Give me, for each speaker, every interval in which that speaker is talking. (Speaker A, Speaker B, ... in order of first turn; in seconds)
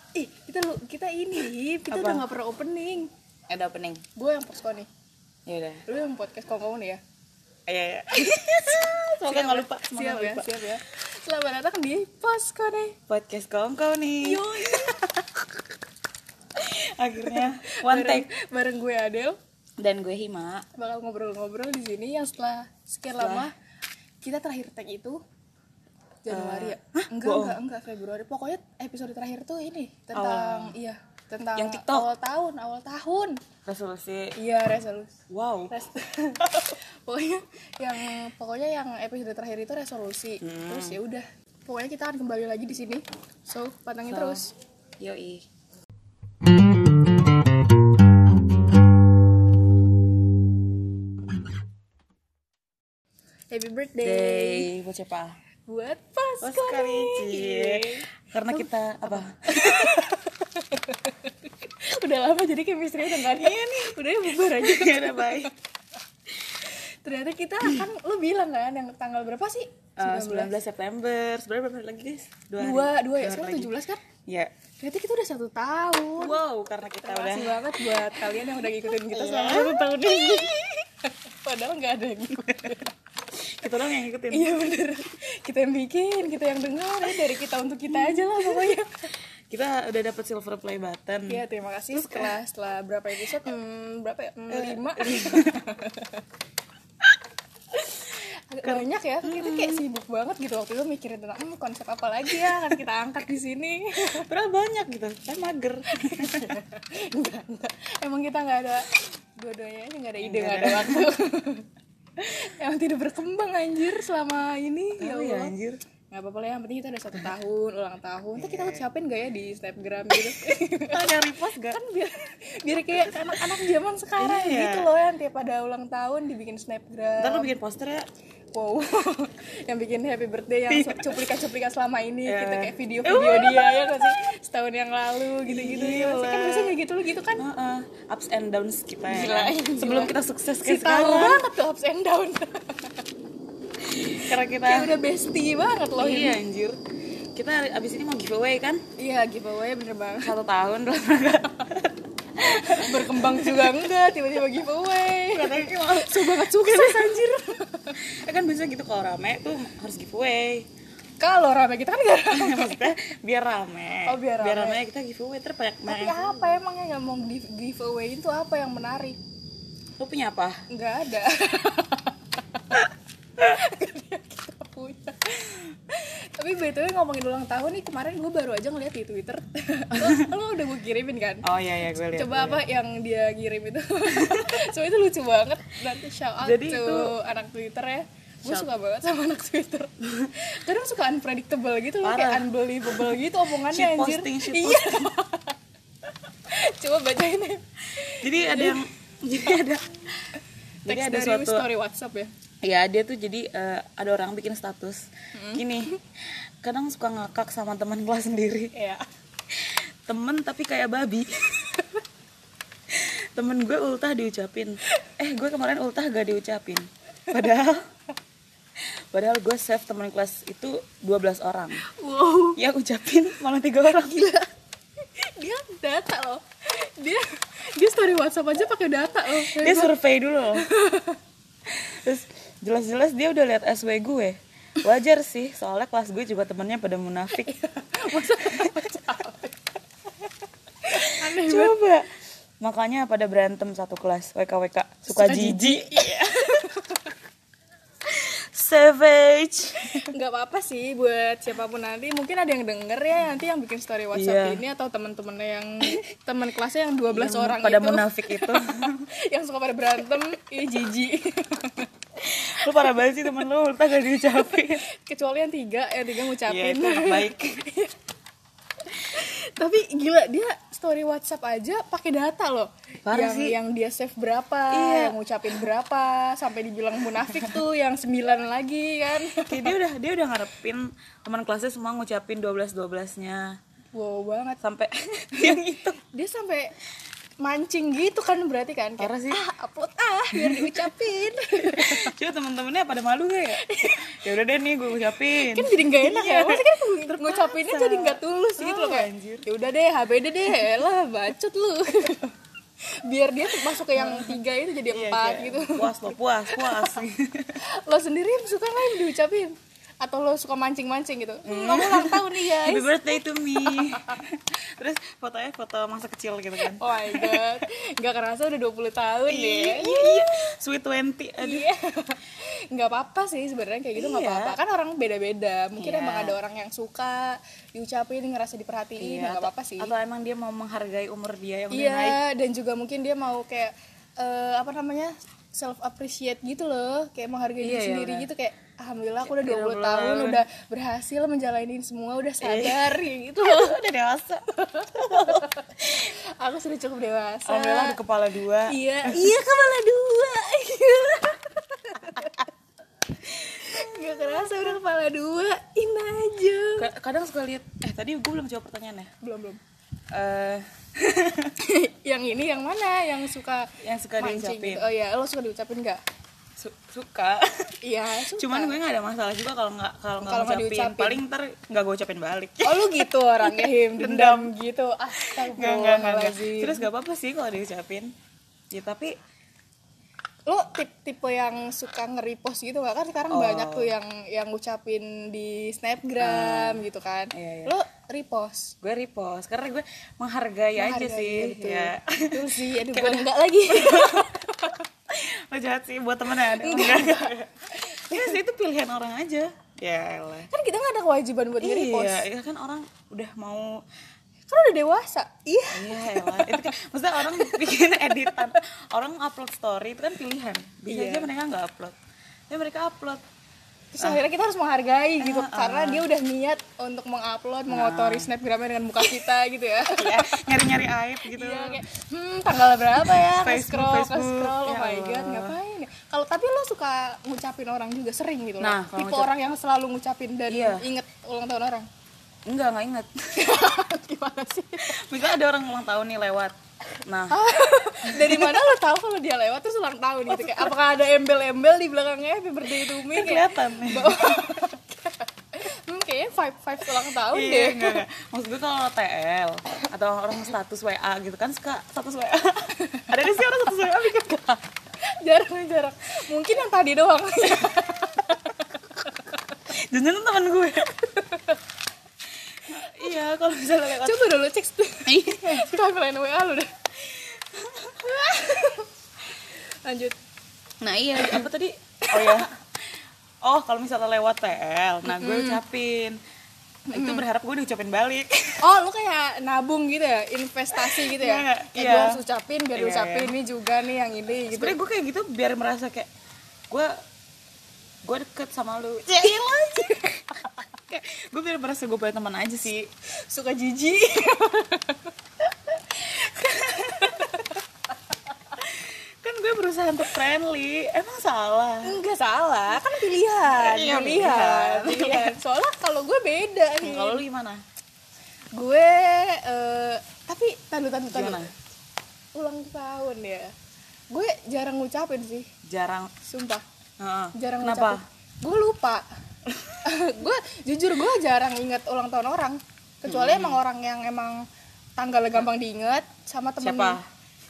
Speaker A: 0.1-3.1, 4.2-4.9, 5.9-7.0, 8.1-13.0, 14.2-15.5, 17.3-19.4, 20.8-23.5, 24.2-25.2, 26.2-33.4, 34.4-35.1, 35.7-44.5, 53.5-54.7, 55.7-65.5, 66.7-70.5, 72.6-74.0, 74.8-76.4, 77.0-82.9, 84.3-89.1, 91.3-96.2, 97.8-104.3, 105.9-111.7, 112.2-115.6, 116.1-127.5, 128.5-137.4, 139.1-143.0, 144.6-146.4, 149.0-150.3, 152.4-158.0, 161.2-162.9, 164.1-164.8, 165.9-169.2, 170.7-172.9, 173.4-181.5, 182.1-195.6, 196.5-198.8, 200.9-202.3, 205.3-205.9, 208.8-209.1, 221.9-222.6, 225.2-229.9, 230.6-231.2, 237.3-239.6, 240.9-241.8, 245.1-247.2, 250.0-258.7, 259.3-261.9, 264.4-267.9, 268.9-279.8, 283.9-284.6, 285.4-286.7, 287.4-292.2, 293.5-294.2, 295.0-302.4, 303.1-307.0, 307.9-314.2, 316.6-320.4, 321.4-329.9, 331.7-343.8, 344.5-348.0, 348.7-352.5, 353.3-356.9, 359.2-359.6, 361.6-366.0, 367.8-368.8, 370.2-371.2, 372.6-376.9, 380.5-388.8, 390.8-394.9, 396.3-398.4, 400.5-402.3, 404.5-408.6, 410.9-411.3, 413.9-420.6, 421.3-431.9, 433.4-435.0, 437.3-448.0, 452.8-453.1, 455.2-459.4, 460.9-461.6, 464.0-466.7, 467.9-470.2, 471.2-471.5, 472.1-472.5, 475.1-475.6, 476.9-477.2, 478.6-484.8, 489.1-490.3, 493.3-495.1, 496.0-497.6, 501.9-507.2, 508.5-511.5, 512.4-513.5, 514.1-515.5, 516.2-516.6, 517.4-519.0, 519.8-524.4, 525.0-527.0
Speaker B: 1.9-2.2, 3.5-4.0, 5.5-5.8, 7.7-10.7, 13.1-14.9, 16.6-18.3, 19.8-20.7, 23.2-23.5, 26.3-27.6, 30.1-30.8, 31.6-32.1, 33.7-34.4, 35.3-35.7, 40.4-41.0, 44.1-44.4, 45.0-45.5, 54.0-55.4, 56.4-60.2, 63.0-65.5, 70.0-73.7, 74.3-74.5, 76.2-80.6, 83.4-84.6, 87.9-88.8, 89.5-92.3, 94.5-95.6, 98.6-99.8, 102.3-102.8, 104.1-106.5, 110.2-111.1, 115.0-115.8, 118.4-118.8, 120.9-121.8, 122.9-123.5, 124.2-124.9, 127.2-128.1, 130.7-131.3, 132.3-134.2, 135.4-136.8, 137.4-141.5, 143.9-145.0, 146.0-146.8, 147.4-148.8, 150.2-154.0, 155.3-157.4, 158.0-160.7, 162.3-166.5, 170.0-170.6, 179.9-180.3, 181.4-182.6, 184.1-184.5, 186.4-187.1, 188.4-188.7, 192.0-195.1, 198.1-201.7, 202.6-208.7, 209.5-211.8, 212.9-217.8, 219.1-221.8, 222.6-224.4, 229.3-230.7, 231.7-237.5, 238.4-238.9, 240.9-242.1, 242.6-246.7, 248.1-250.1, 254.1-254.6, 257.1-259.1, 262.2-264.8, 266.3-267.6, 273.1-273.6, 274.7-275.7, 279.5-283.6, 284.6-286.0, 289.0-289.4, 290.3-299.5, 303.7-307.6, 311.5-317.5, 319.3-321.7, 324.0-324.6, 325.8-326.4, 329.0-332.2, 337.6-338.3, 339.2-340.4, 342.4-346.1, 347.5-349.4, 353.4-354.7, 356.8-359.1, 360.1-361.5, 363.8-364.9, 366.6-367.8, 368.4-374.5, 375.2-378.1, 378.7-379.1, 383.3-383.9, 386.2-386.8, 387.3-387.7, 388.8-394.4, 395.1-400.5, 401.6-403.8, 405.7-412.0, 412.5-413.2, 415.2-416.1, 417.7-418.3, 419.9-421.8, 422.9-425.6, 428.6-429.3, 430.5-430.8, 432.5-433.7, 434.8-437.4, 438.1-438.7, 440.3-440.7, 442.7-444.6, 446.9-454.6, 459.7-460.9, 462.6-464.3, 465.1-465.8, 467.6-468.0, 470.8-472.5, 473.4-476.2, 476.9-478.6, 480.7-482.2, 482.8-483.3, 484.5-486.1, 488.0-490.1, 490.9-492.9, 496.2-497.4, 498.6-502.0, 503.5-505.4, 506.8-507.6, 511.1-511.5, 515.7-516.1, 517.0-518.0, 519.5-519.8, 523.1-523.6, 526.6-527.0